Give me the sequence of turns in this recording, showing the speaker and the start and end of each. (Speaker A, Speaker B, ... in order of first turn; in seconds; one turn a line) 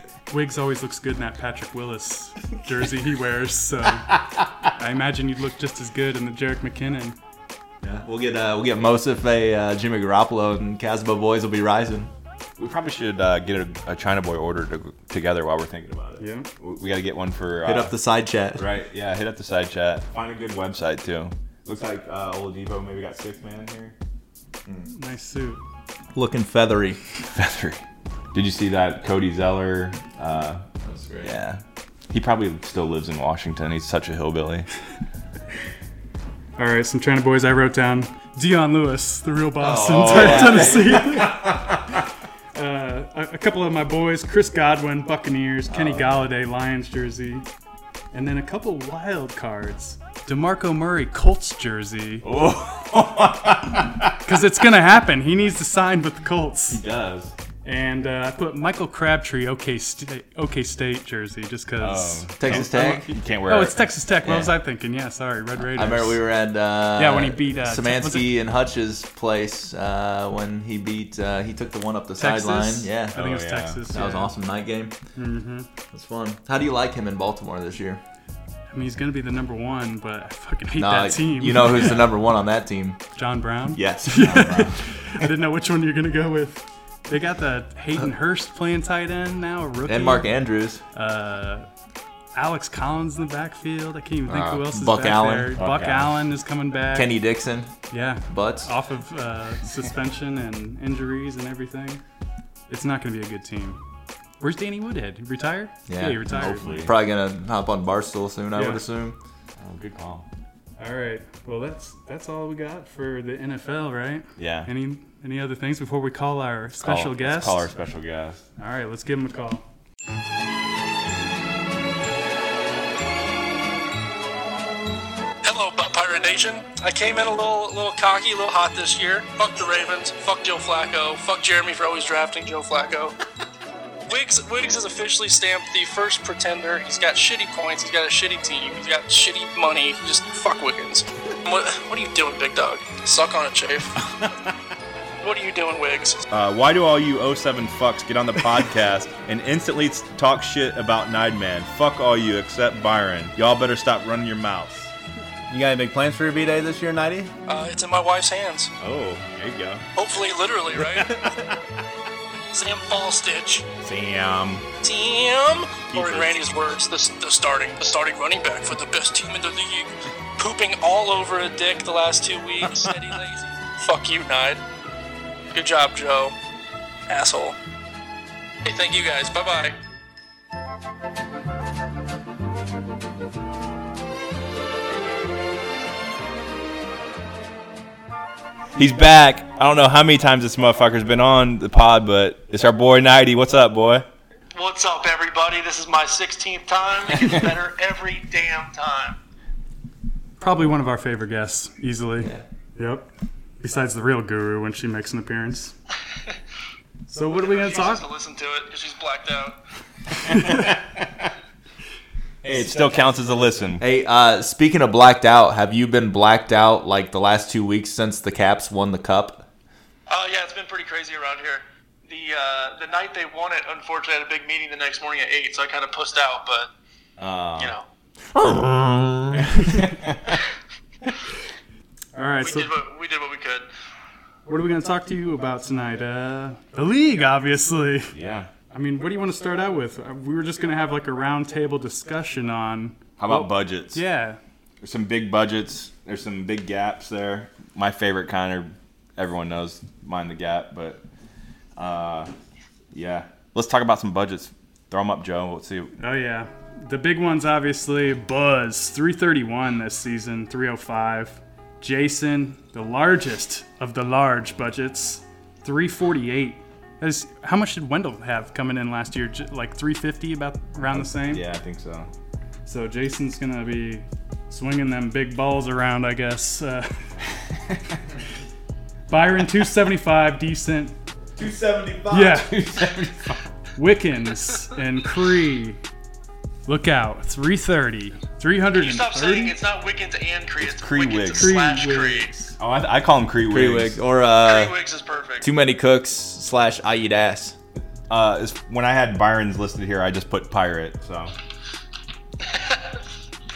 Speaker A: 0.3-7.2
Speaker B: 7.8-12.1
Speaker C: 12.6-17.9
Speaker A: 16.2-16.5
Speaker B: 17.6-18.7
Speaker C: 18.6-23.9
Speaker A: 24.9-25.6
Speaker B: 26.1-27.0
Speaker C: 27.3-27.8
Speaker C: 28.3-30.6
Speaker B: 30.8-31.3
Speaker C: 31.2-34.7
Speaker A: 36.6-41.6
Speaker B: 39.6-41.3
Speaker C: 39.7-41.8
Speaker A: 42.5-47.5
Speaker A: 48.1-52.3
Speaker C: 52.2-54.2
Speaker A: 54.2-56.8
Speaker C: 56.7-57.3
Speaker A: 57.6-66.2
Speaker C: 61.8-63.9
Speaker B: 62.4-63.1
Speaker B: 64.2-64.6
Speaker B: 65.7-73.2
Speaker A: 67.0-68.3
Speaker A: 72.2-74.3
Speaker C: 73.1-73.9
Speaker B: 73.9-75.0
Speaker A: 75.2-75.7
Speaker B: 75.9-78.0
Speaker A: 78.7-82.0
Speaker B: 80.8-83.0
Speaker A: 83.2-90.3
Speaker B: 83.7-84.7
Speaker B: 89.9-90.8
Speaker A: 90.9-91.7
Speaker A: 92.3-97.1
Speaker B: 94.3-95.5
Speaker C: 95.6-96.2
Speaker B: 96.9-97.7
Speaker A: 97.9-102.0
Speaker B: 98.3-98.7
Speaker A: 102.7-103.8
Speaker A: 104.4-106.9
Speaker B: 105.9-109.2
Speaker C: 106.3-106.9
Speaker A: 108.5-108.8
Speaker C: 109.6-110.3
Speaker A: 110.8-117.7
Speaker C: 114.4-114.7
Speaker C: 116.8-118.4
Speaker A: 118.6-119.7
Speaker D: 125.4-133.1
Speaker E: 128.0-129.4
Speaker E: 129.9-132.9
Speaker D: 134.1-143.9
Speaker E: 134.1-136.6
Speaker E: 137.4-139.9
Speaker E: 141.6-142.4
Speaker D: 145.2-146.2
Speaker C: 146.3-154.9
Speaker B: 155.5-157.3
Speaker D: 157.5-158.7
Speaker C: 158.8-159.9
Speaker D: 160.0-161.1
Speaker C: 160.8-161.6
Speaker D: 162.5-163.7
Speaker C: 163.8-164.7
Speaker D: 164.8-174.6
Speaker C: 165.9-166.5
Speaker E: 172.4-173.0
Speaker E: 174.1-174.3
Speaker D: 175.5-176.3
Speaker D: 177.1-177.6
Speaker D: 178.7-179.8
Speaker C: 188.8-194.1
Speaker E: 194.5-199.2
Speaker A: 200.4-203.1
Speaker A: 203.6-205.7
Speaker A: 207.1-208.1
Speaker E: 207.2-209.6
Speaker C: 210.3-211.3
Speaker C: 212.4-213.8
Speaker B: 213.8-219.5
Speaker E: 220.1-226.7
Speaker C: 227.2-227.8
Speaker E: 227.6-227.9
Speaker B: 228.3-229.9
Speaker C: 229.4-230.4
Speaker A: 232.2-232.7
Speaker E: 232.4-233.7
Speaker A: 234.5-238.1
Speaker C: 238.1-238.5
Speaker A: 238.7-244.4
Speaker C: 243.2-244.0
Speaker C: 244.8-251.0
Speaker C: 251.8-252.3
Speaker C: 252.9-255.9
Speaker A: 256.0-271.4
Speaker C: 270.9-272.1
Speaker A: 272.7-277.0
Speaker A: 279.1-281.0
Speaker B: 281.4-282.5
Speaker A: 282.1-282.5
Speaker C: 282.2-283.4
Speaker A: 283.8-285.8
Speaker A: 286.7-289.6
Speaker E: 288.7-292.3
Speaker C: 290.6-291.6
Speaker A: 291.4-292.6
Speaker C: 292.6-294.0
Speaker B: 293.5-294.8
Speaker E: 294.4-295.5
Speaker B: 295.4-297.6
Speaker C: 298.1-301.3
Speaker E: 302.5-302.8